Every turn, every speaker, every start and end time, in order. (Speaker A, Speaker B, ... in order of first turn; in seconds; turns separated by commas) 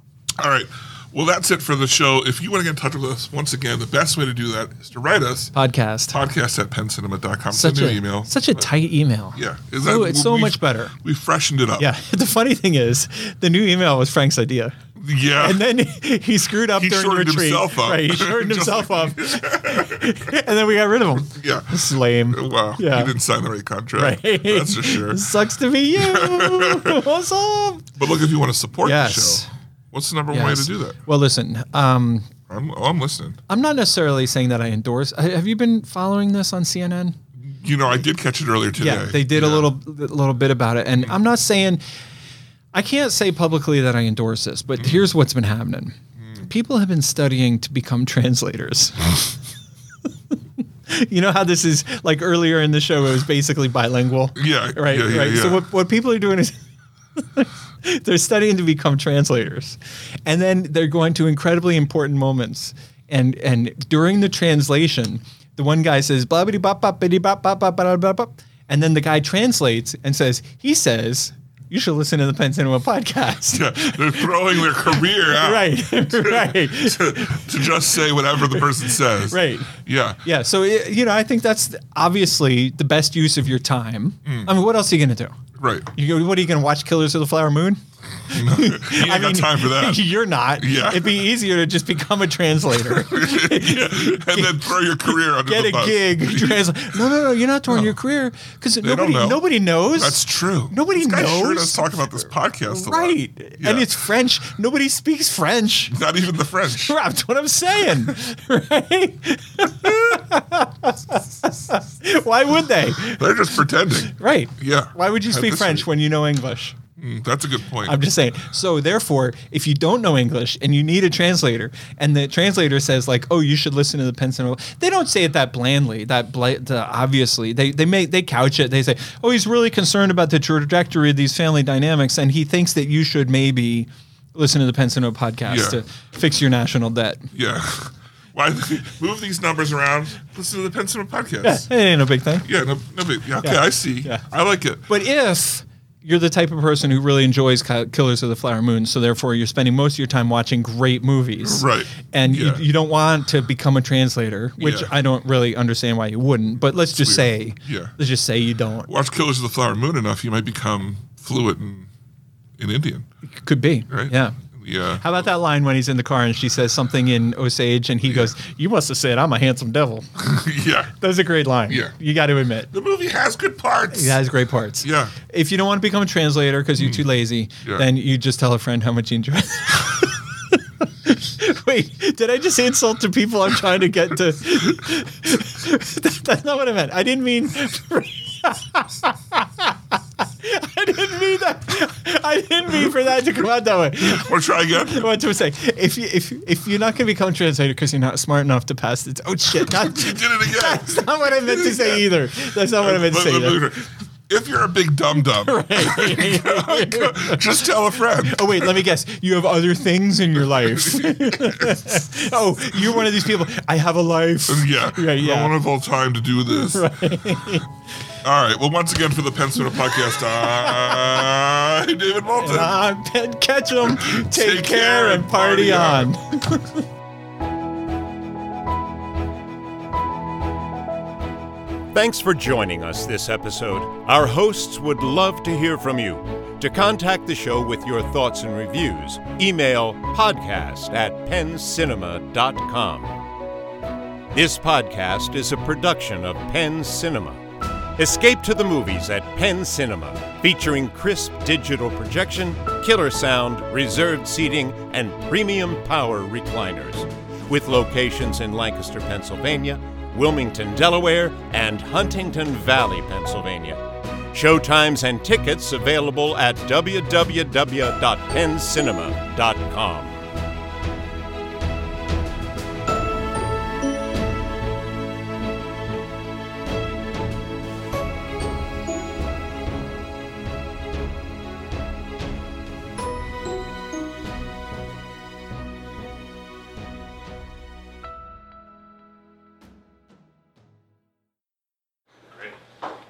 Speaker A: 0.3-5.5, Speaker B: 5.5-6.2, Speaker A: 6.1-8.7, Speaker B: 7.5-10.9, Speaker A: 9.3-11.9, Speaker B: 11.8-14.8, Speaker A: 15.0-15.6, Speaker B: 15.4-23.1, Speaker A: 16.8-20.2, Speaker A: 21.2-25.3, Speaker B: 24.0-27.9, Speaker A: 25.9-27.0, Speaker A: 28.0-31.0, Speaker B: 28.8-29.5, Speaker B: 30.3-32.3, Speaker A: 32.5-33.4, Speaker B: 33.5-37.2, Speaker A: 37.4-39.7, Speaker B: 38.8-41.8, Speaker B: 42.7-49.4, Speaker A: 46.2-46.5, Speaker B: 50.9-56.6, Speaker A: 54.4-55.7, Speaker B: 57.2-77.7, Speaker A: 73.5-80.2, Speaker B: 78.3-85.4, Speaker A: 84.2-84.5, Speaker A: 85.6-85.9, Speaker B: 86.0-102.0, Speaker A: 88.3-90.0, Speaker A: 90.6-91.2, Speaker A: 92.8-97.1, Speaker A: 97.7-98.0, Speaker A: 98.8-103.9, Speaker B: 102.7-106.0, Speaker A: 105.9-107.0, Speaker B: 106.7-116.8, Speaker A: 109.8-110.1, Speaker A: 113.0-115.9, Speaker A: 117.0-118.0, Speaker B: 117.8-137.3, Speaker A: 135.4-135.8, Speaker A: 137.3-141.7, Speaker B: 141.4-142.5, Speaker A: 142.4-144.9, Speaker B: 143.4-144.3, Speaker B: 144.9-158.9, Speaker A: 151.4-152.6, Speaker A: 154.6-154.9, Speaker A: 156.8-158.0, Speaker A: 158.9-161.9, Speaker A: 162.6-163.1, Speaker B: 163.4-164.4, Speaker A: 163.9-165.3, Speaker B: 165.0-170.1, Speaker A: 168.1-168.3, Speaker A: 170.2-170.9, Speaker B: 171.0-172.7, Speaker A: 171.7-171.9, Speaker A: 172.7-174.2, Speaker B: 173.9-203.8, Speaker A: 174.8-175.2, Speaker A: 176.8-177.0, Speaker A: 194.0-195.1, Speaker A: 199.5-208.8, Speaker B: 205.2-207.5, Speaker B: 208.1-215.6, Speaker A: 210.5-213.2, Speaker A: 214.5-217.1, Speaker B: 216.7-217.7, Speaker A: 218.2-222.8, Speaker B: 220.3-221.3, Speaker B: 222.4-226.8, Speaker A: 223.8-226.1, Speaker C: 231.9-243.1, Speaker C: 244.3-247.4, Speaker C: 248.0-263.8, Speaker C: 264.3-270.2